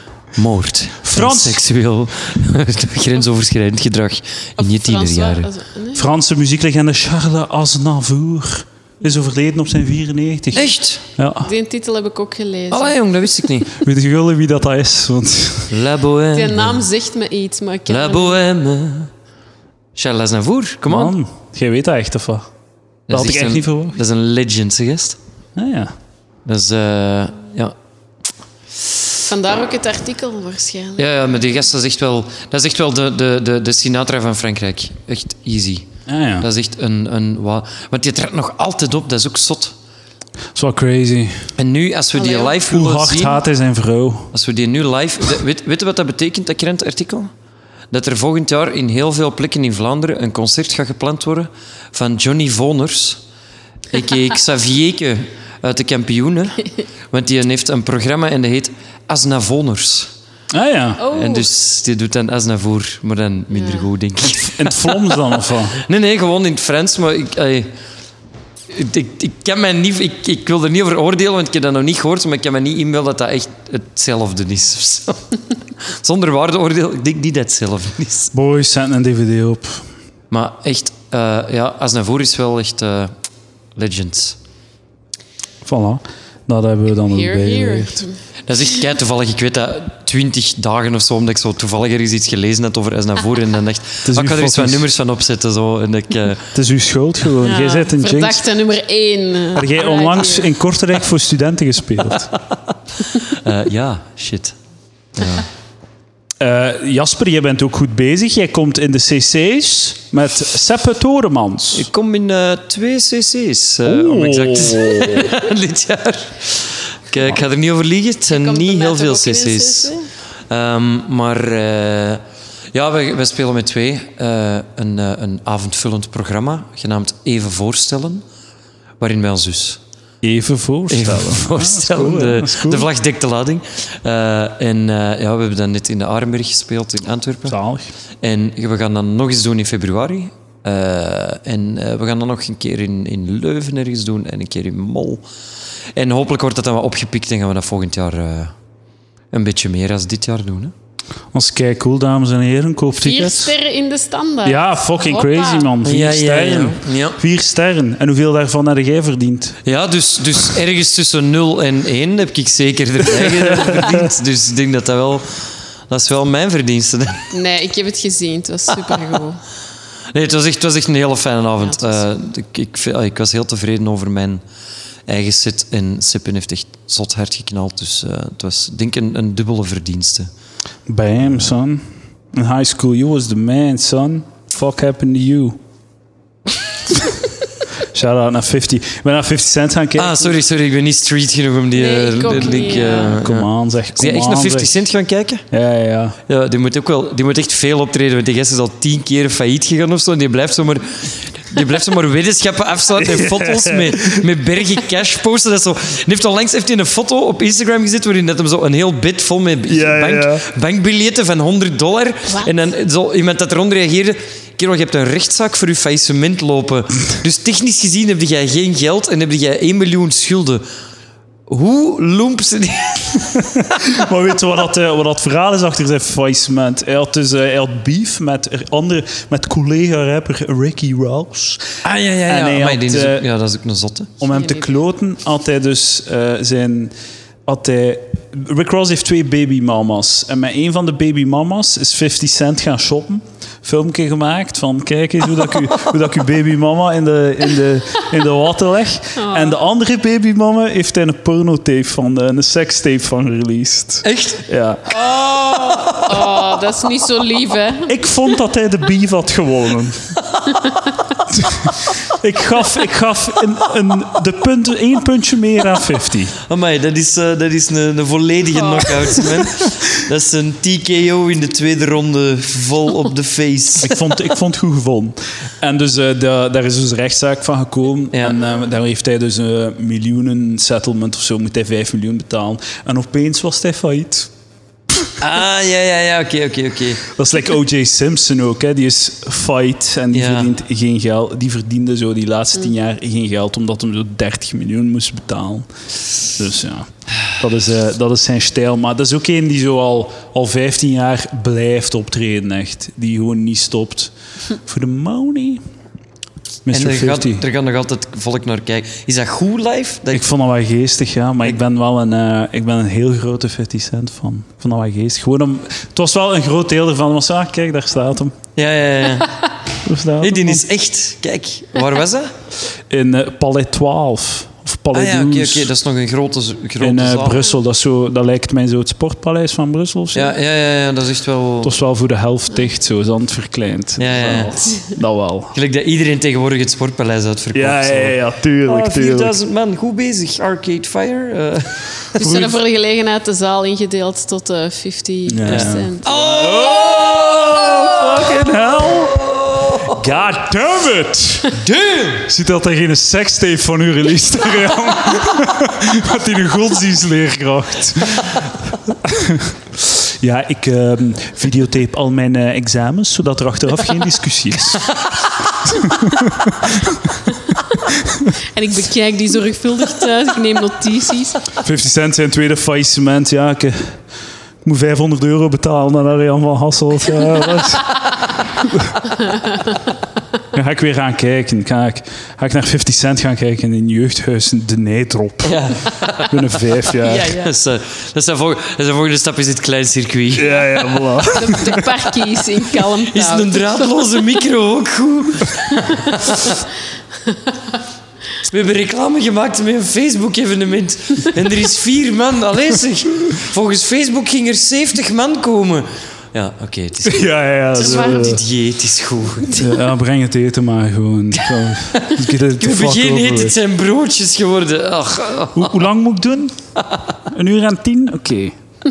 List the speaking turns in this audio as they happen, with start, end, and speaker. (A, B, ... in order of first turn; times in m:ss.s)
0:00.4-0:05.5 A
0:01.0-0:01.6 B
0:04.6-0:06.1 C
0:06.0-0:11.5 B
0:10.5-0:11.0 A
0:11.4-0:13.0 C
0:12.7-0:13.7 A
0:13.8-0:15.7 B
0:15.7-0:16.8 A
0:16.4-0:18.4 C
0:17.9-0:19.1 A
0:20.0-0:21.2 A
0:20.9-0:22.5 B
0:23.1-0:25.2 A
0:23.1-0:24.0 B
0:25.6-0:25.9 B
0:26.5-0:27.8 A
0:29.3-0:31.1 C
0:31.0-0:35.9 A
0:36.1-0:36.5 B
0:36.4-0:39.8 A
0:40.6-0:41.5 B
0:41.6-0:43.4 A
0:42.1-0:42.6 C
0:42.6-0:44.3 B
0:44.3-0:47.3 A
0:47.9-0:53.2 A
0:53.9-1:00.1 A
1:00.5-1:01.0 B
1:01.0-1:01.5 C
1:01.1-1:04.6 A
1:03.5-1:03.9 C
1:04.2-1:05.8 B
1:05.8-1:07.7 A
1:08.7-1:15.2 A
1:15.8-1:18.3 A
1:18.3-1:19.8 B
1:20.3-1:23.1 A
1:23.8-1:24.4 A
1:25.6-1:28.0 B
1:27.1-1:28.2 C
1:28.5-1:36.5 A
1:34.0-1:34.9 B
1:36.6-1:38.4 B
1:37.4-1:40.5 C
1:39.6-1:42.3 B
1:43.1-1:44.6 A
1:45.2-1:45.5 A
1:46.4-1:51.9 B
1:51.7-1:59.9 A
1:53.9-1:55.4 B
1:58.3-2:00.1 C
2:00.5-2:08.2 A
2:09.0-2:09.8 A
2:10.2-2:12.9 B
2:10.9-2:17.6 A
2:17.5-2:17.9 B
2:18.2-2:25.2 A
2:26.0-2:28.5 A
2:29.3-2:30.7 A
2:31.3-2:33.5 B
2:33.0-2:35.7 C
2:34.4-2:39.6 B
2:35.8-2:37.2 A
2:39.6-2:47.3 A
2:43.1-2:44.0 B
2:47.3-2:49.4 C
2:50.1-2:54.4 A
2:51.6-2:52.0 C
2:55.1-3:00.3 A
3:00.9-3:05.6 B
3:06.9-3:07.2 B
3:07.9-3:10.4 B
3:10.0-3:15.4 A
3:11.7-3:13.2 C
3:12.9-3:14.7 B
3:15.5-3:16.2 B
3:16.3-3:40.7 A
3:23.0-3:24.2 B
3:29.7-3:30.4 B
3:41.5-3:43.8 A
3:43.4-3:53.3 B
3:51.8-3:54.1 A
3:54.2-3:56.9 B
3:54.3-3:54.8 C
3:57.5-4:14.8 B
4:09.2-4:09.6 C
4:14.0-4:16.4 A
4:14.9-4:18.0 C
4:17.9-4:20.2 B
4:20.6-4:20.9 C
4:21.3-4:26.4 B
4:26.5-4:34.0 A
4:33.8-4:44.3 B
4:38.1-4:38.4 A
4:45.2-4:47.0 A
4:47.1-4:55.7 B
4:50.1-4:50.5 A
4:56.2-5:04.1 B
5:04.6-5:05.6 B
5:06.6-5:07.4 B
5:06.7-5:10.2 A
5:10.1-5:18.4 B
5:18.6-5:19.4 A
5:19.8-5:20.6 B
5:20.2-5:22.3 A
5:22.9-5:25.7 B
5:24.9-5:27.4 A
5:26.8-5:30.4 B
5:30.1-5:31.7 A
5:31.6-5:35.5 B
5:34.0-5:34.6 A
5:35.5-5:42.2 A
5:37.5-5:39.3 B
5:42.2-5:46.6 C
5:42.2-5:42.6 B
5:45.3-5:45.9 B
5:45.5-5:50.0 A
5:46.7-5:49.2 B
5:49.9-5:51.6 B
5:51.6-5:52.3 A
5:52.3-6:05.0 B
6:05.7-6:07.2 B
6:08.5-6:11.5 C
6:11.6-6:14.0 B
6:14.6-6:19.0 B
6:19.2-6:19.6 C
6:20.5-6:25.7 B
6:25.4-6:30.6 A
6:26.3-6:27.3 B
6:27.1-6:27.4 C
6:30.3-6:32.0 B
6:31.3-6:34.4 C
6:33.1-6:36.6 A
6:37.3-6:37.6 C
6:38.4-6:49.6 A
6:47.0-6:48.4 B
6:47.8-6:48.4 C
6:49.5-6:53.6 B
6:51.9-6:55.9 A
6:55.6-6:56.6 B
6:56.8-6:57.2 A
6:57.3-6:58.6 B